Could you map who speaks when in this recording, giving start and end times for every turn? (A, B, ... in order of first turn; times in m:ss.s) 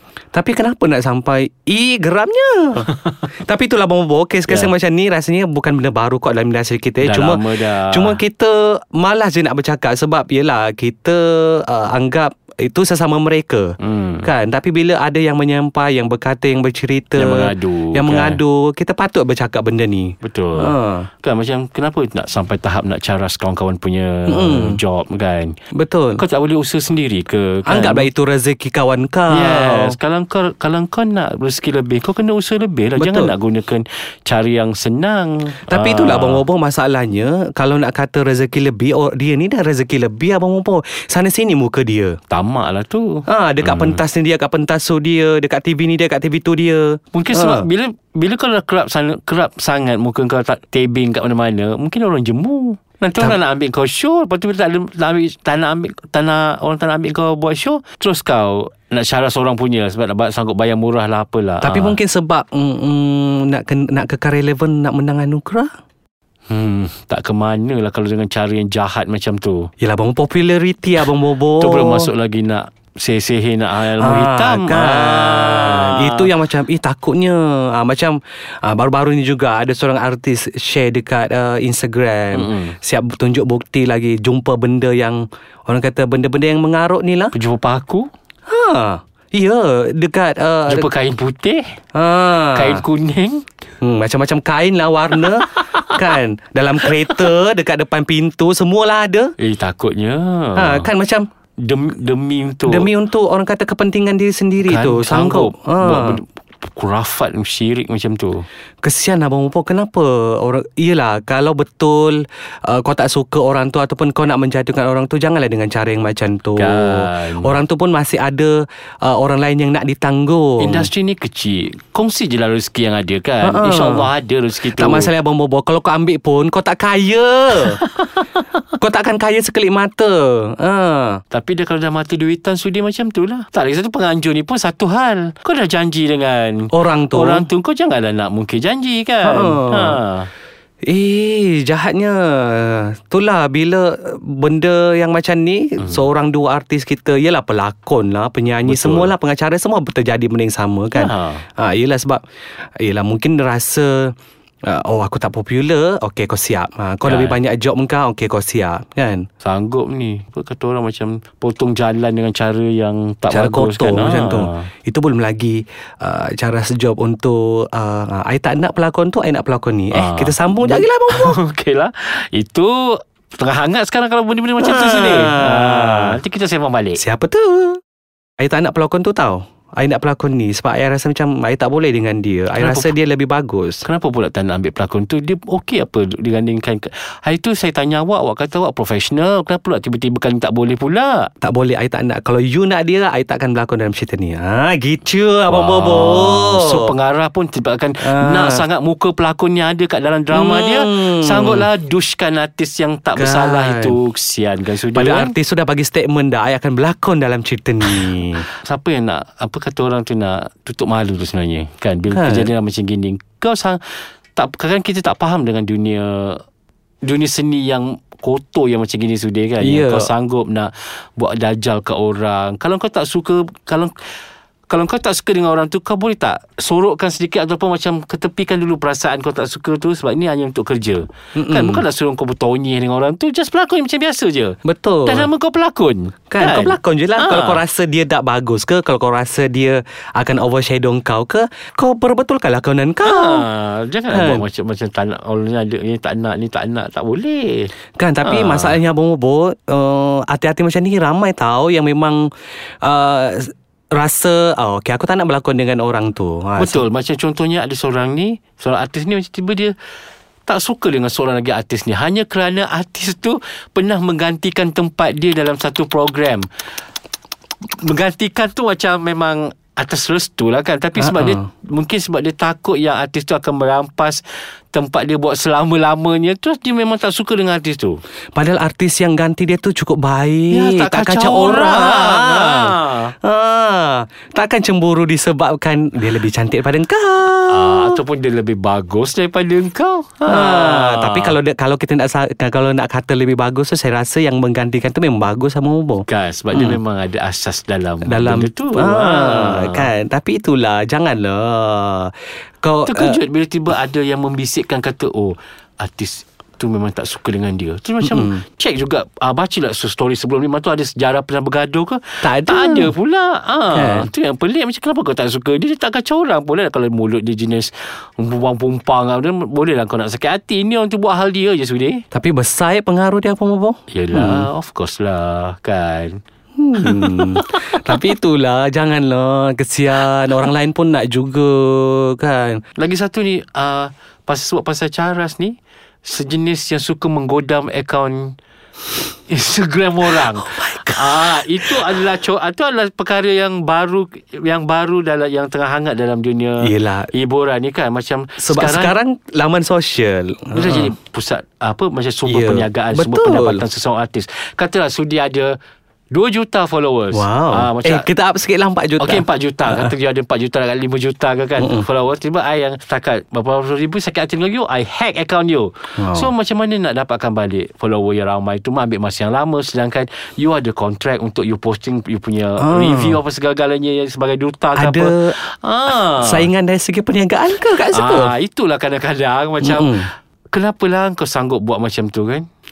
0:00.3-0:21.1 A
0:04.5-0:04.7 B
0:07.0-0:08.2 B
0:13.8-0:14.3 B
0:17.2-0:18.4 B
0:20.2-0:25.6 B
0:24.3-0:24.8 A
0:25.7-0:26.2 A
0:26.2-0:28.1 B
0:27.7-0:30.0 A
0:29.3-0:36.4 B
0:33.0-0:33.3 A
0:35.7-0:42.2 A
0:42.3-0:44.0 B
0:43.3-0:47.7 A
0:47.1-1:02.0 B
1:01.6-1:05.7 A
1:06.5-1:09.7 B
1:09.8-1:12.1 A
1:11.6-1:16.3 B
1:14.0-1:27.4 A
1:22.3-1:22.8 B
1:27.3-1:28.1 B
1:28.5-1:30.9 A
1:30.7-1:31.8 B
1:32.0-1:32.8 A
1:32.5-1:33.4 B
1:33.8-1:39.4 A
1:39.4-1:40.9 B
1:40.6-1:41.3 A
1:41.6-1:42.9 B
1:42.6-1:46.2 A
1:44.6-1:48.5 B
1:48.8-2:00.9 A
1:56.6-1:57.6 B
2:00.6-2:05.1 B
2:03.4-2:04.1 A
2:04.7-2:07.8 A
2:08.8-2:11.2 A
2:11.3-2:20.3 B
2:16.7-2:17.5 A
2:19.2-2:20.0 A
2:20.9-2:32.2 A
2:28.6-2:29.1 B
2:31.0-2:31.4 B
2:32.8-2:34.1 A
2:34.7-2:39.2 A
2:37.0-2:37.4 B
2:39.4-2:44.7 B
2:43.3-2:51.4 A
2:49.9-2:57.0 B
2:54.6-2:56.2 A
2:57.0-2:57.8 A
2:58.4-3:03.9 A
3:02.5-3:03.0 B
3:03.8-3:11.3 B
3:11.4-3:16.8 A
3:15.5-3:25.4 B
3:18.0-3:18.6 A
3:20.3-3:21.7 A
3:23.2-3:24.0 A
3:24.9-3:28.5 A
3:28.6-3:33.8 B
3:32.1-3:32.5 A
3:34.4-3:36.4 B
3:37.0-3:44.0 B
3:39.6-3:40.1 A
3:44.7-3:57.6 B
3:51.4-3:51.8 A
3:54.6-3:55.3 A
3:56.3-4:03.5 A
4:03.0-4:07.7 B
4:04.1-4:04.4 A
4:08.0-4:12.2 A
4:08.2-4:08.8 B
4:12.8-4:16.8 A
4:16.6-4:19.7 B
4:20.5-4:26.5 B
4:27.8-4:38.0 B
4:31.0-4:31.4 A
4:38.4-4:48.0 A
4:40.5-4:43.1 B
4:47.5-4:51.4 B
4:50.3-4:56.8 A
4:56.1-4:59.9 B
4:58.0-5:02.1 A
5:02.6-5:03.2 A
5:02.9-5:22.0 B
5:08.0-5:08.4 A
5:12.2-5:12.9 A
5:13.7-5:14.1 A
5:22.1-5:24.5 A
5:23.9-5:26.2 B
5:26.6-5:32.6 A
5:26.8-5:28.0 B
5:32.8-5:38.4 B
5:39.3-5:49.0 B
5:40.0-5:42.0 A
5:46.6-5:47.1 A
5:48.4-5:50.9 A
5:50.5-5:55.6 B
5:52.3-5:53.6 A
5:56.1-5:58.1 B
5:57.1-5:59.9 A
5:59.0-6:16.5 B
6:01.6-6:01.9 A
6:06.0-6:06.3 A
6:12.6-6:13.2 A
6:14.8-6:15.4 A
6:16.2-6:18.4 A
6:17.9-6:22.5 B
6:19.6-6:20.1 A